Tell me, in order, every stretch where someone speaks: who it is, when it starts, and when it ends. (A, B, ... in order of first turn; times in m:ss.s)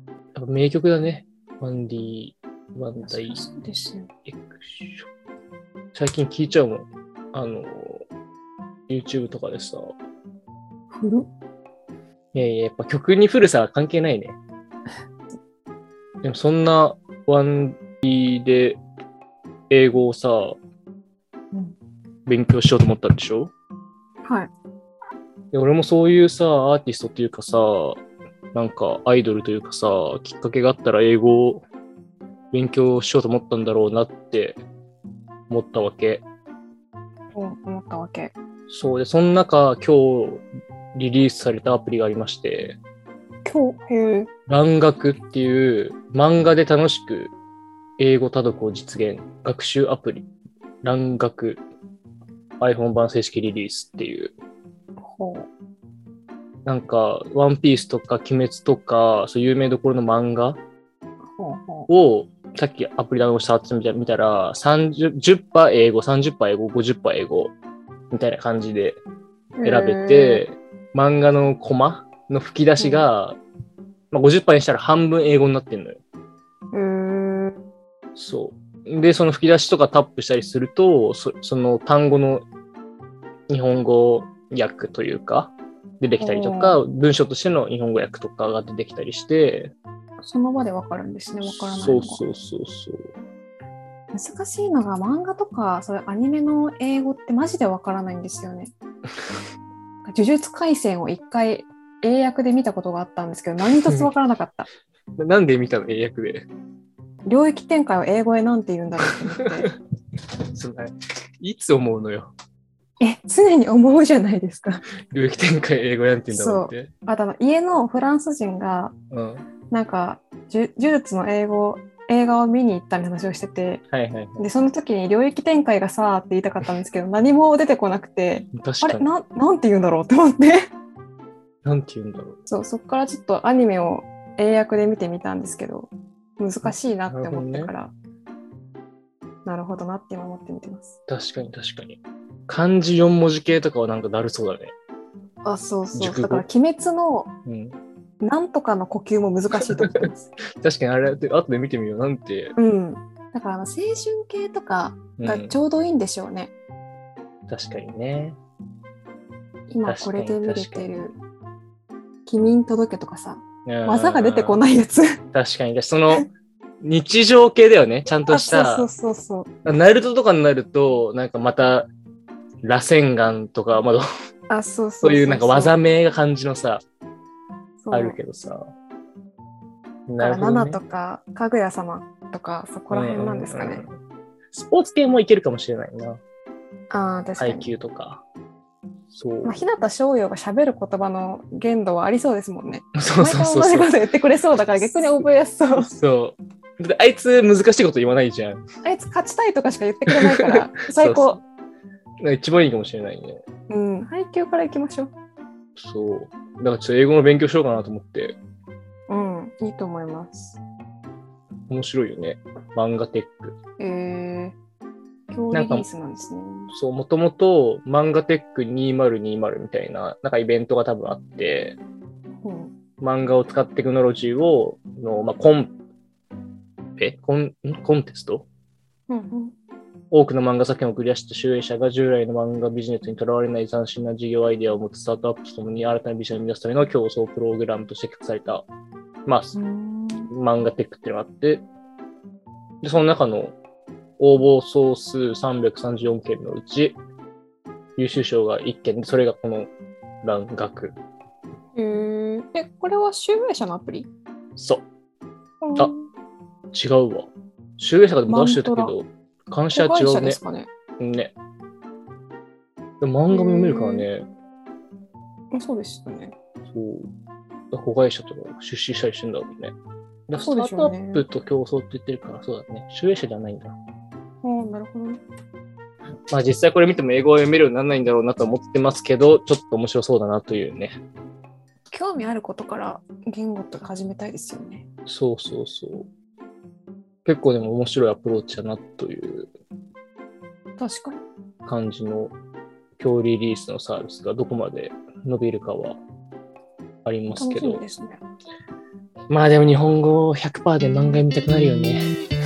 0:00.3-0:03.5 A
0:03.0-0:04.1 B
0:04.2-0:05.1 A
0:05.9-0:08.0 A
0:08.9-0:09.9 A
0:10.9-0:11.3 B
0:12.3-0:14.4 A
0:16.2-0:18.8 A
0:19.7-0:20.6 A
0:21.5-0:21.8 B
0:22.3-0:23.5 A
0:24.2-0:24.5 B
0:25.5-0:28.0 A
0:28.5-0:31.6 A
0:32.5-0:34.6 A
0:35.5-0:36.2 A
0:37.3-0:38.3 B
0:38.7-0:40.4 A
0:40.9-0:42.8 A
0:43.4-0:44.3 B
0:44.5-0:47.3 A
0:48.0-0:50.3 A
0:50.8-0:51.6 A
0:52.6-0:54.3 A
0:55.0-0:55.5 B
0:56.6-1:00.6 A
1:01.3-1:01.9 B
1:01.9-1:07.5 A
1:08.1-1:09.0 A
1:09.6-1:10.4 B
1:09.6-1:13.4 A
1:12.8-1:13.1 B
1:14.1-1:16.0 A
1:16.7-1:17.6 B
1:18.2-1:22.4 A
1:23.5-1:29.7 A
1:26.2-1:26.8 B
1:30.2-1:32.2 B
1:31.4-1:33.0 A
1:34.1-1:38.7 B
1:40.0-1:44.6 B
1:43.7-1:44.1 A
1:45.2-1:46.5 A
1:47.2-1:49.7 B
1:50.5-1:52.3 A
1:53.0-1:54.8 B
1:55.1-1:56.9 A
1:56.3-1:58.9 B
1:59.1-1:59.4 A
1:59.7-2:03.8 B
2:03.9-2:04.4 A
2:04.4-2:10.7 B
2:08.5-2:09.0 A
2:11.6-2:12.4 A
2:12.5-2:17.9 B
2:16.6-2:17.7 A
2:19.4-2:21.0 B
2:21.1-2:24.7 A
2:25.4-2:27.3 B
2:25.9-2:26.4 A
2:27.4-2:27.8 A
2:28.2-2:30.3 B
2:29.8-2:30.1 A
2:30.6-2:32.5 A
2:32.6-2:36.5 B
2:35.2-2:35.6 A
2:37.5-2:38.4 A
2:39.7-2:41.2 B
2:39.8-2:40.9 A
2:42.2-2:45.2 B
2:43.6-2:44.6 A
2:45.3-2:46.3 A
2:46.8-2:48.9 A
2:48.3-2:49.5 B
2:49.6-2:51.9 A
2:52.6-2:54.0 A
2:54.5-2:55.7 B
2:55.0-2:56.8 A
2:57.8-2:58.2 B
2:57.9-2:58.7 A
3:00.1-3:00.8 A
3:00.2-3:03.8 B
3:02.9-3:03.8 A
3:04.5-3:06.2 A
3:06.9-3:07.7 B
3:07.4-3:08.2 A
3:09.1-3:09.6 A
3:09.4-3:15.9 B
3:13.0-3:13.9 A
3:15.8-3:18.6 A
3:18.8-3:21.4 B
3:20.1-3:21.4 A
3:22.2-3:23.4 A
3:23.7-3:25.1 B
3:25.8-3:28.4 A
3:29.1-3:30.6 B
3:31.7-3:33.5 A
3:33.8-3:34.6 B
3:35.3-3:36.7 B
3:35.5-3:35.9 A
3:36.7-3:41.8 A
3:42.4-3:42.7 B
3:43.0-3:45.7 A
3:47.0-3:48.5 A
3:49.1-3:49.6 B
3:50.1-3:58.6 A
3:59.2-3:59.6 A
3:59.5-4:00.3 B
4:00.3-4:01.6 A
4:02.8-4:03.6 A
4:04.2-4:07.0 A
4:08.0-4:09.7 A
4:10.2-4:11.0 A
4:11.7-4:14.1 B
4:14.6-4:14.8 A
4:15.6-4:16.1 B
4:16.7-4:20.4 A
4:18.3-4:19.0 B
4:19.7-4:20.7 B
4:21.0-4:21.3 A
4:23.0-4:24.3 A
4:23.3-4:24.1 B
4:25.5-4:26.3 B
4:26.7-4:27.1 A
4:27.7-4:29.7 A
4:30.3-4:33.8 A
4:30.4-4:31.2 B
4:34.4-4:35.2 B
4:36.3-4:41.0 A
4:41.9-4:44.8 B
4:45.1-4:46.1 A
4:47.2-4:49.5 A
4:50.8-4:51.2 B
4:51.6-4:52.3 A
4:53.0-4:56.0 A
4:57.0-4:57.8 A
4:57.3-4:58.2 B
4:59.3-5:02.0 A